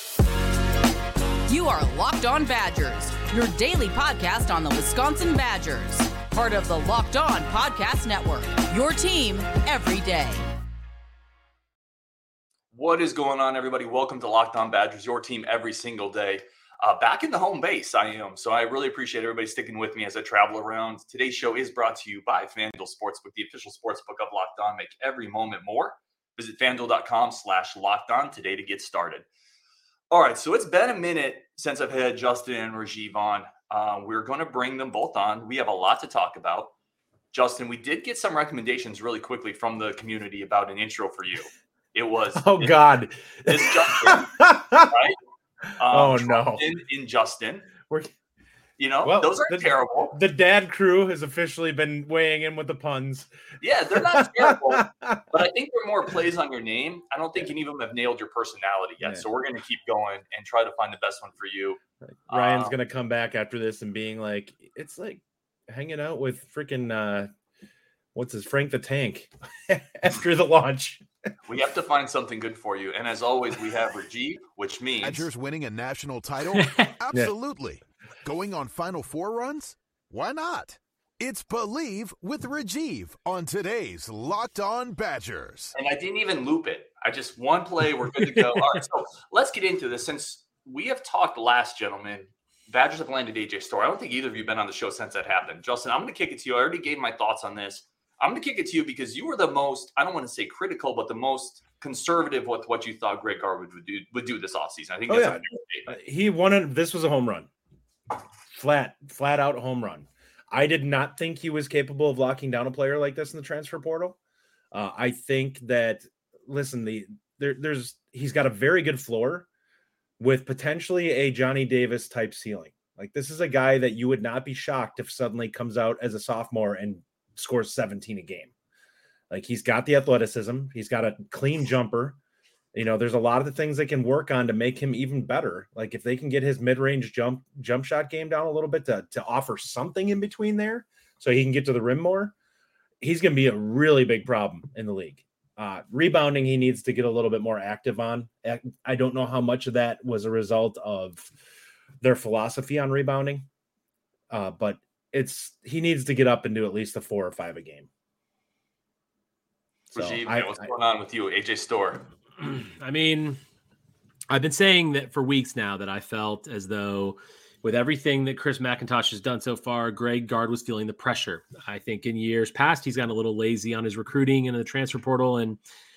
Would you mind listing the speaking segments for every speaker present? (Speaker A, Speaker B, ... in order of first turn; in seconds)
Speaker A: 1.5-10.4
Speaker B: 12.7-29.3, 30.1-36.7, 37.3-42.8, 43.5-45.2, 45.8-47.7, 48.8-50.2, 53.6-62.7, 71.5-75.3, 85.8-106.0, 159.9-162.1
Speaker C: 42.4-44.9, 45.9-46.6, 49.0-53.3, 53.9-55.2, 62.3-67.3, 68.2-71.0, 105.1-107.5, 108.5-114.2, 114.7-119.5, 120.2-128.5, 129.3-132.2, 132.7-142.3, 143.0-151.3, 152.0-153.5, 154.3-157.9, 159.9-160.7
Speaker D: 75.0-85.8
Speaker E: 162.4-163.4, 164.3-175.6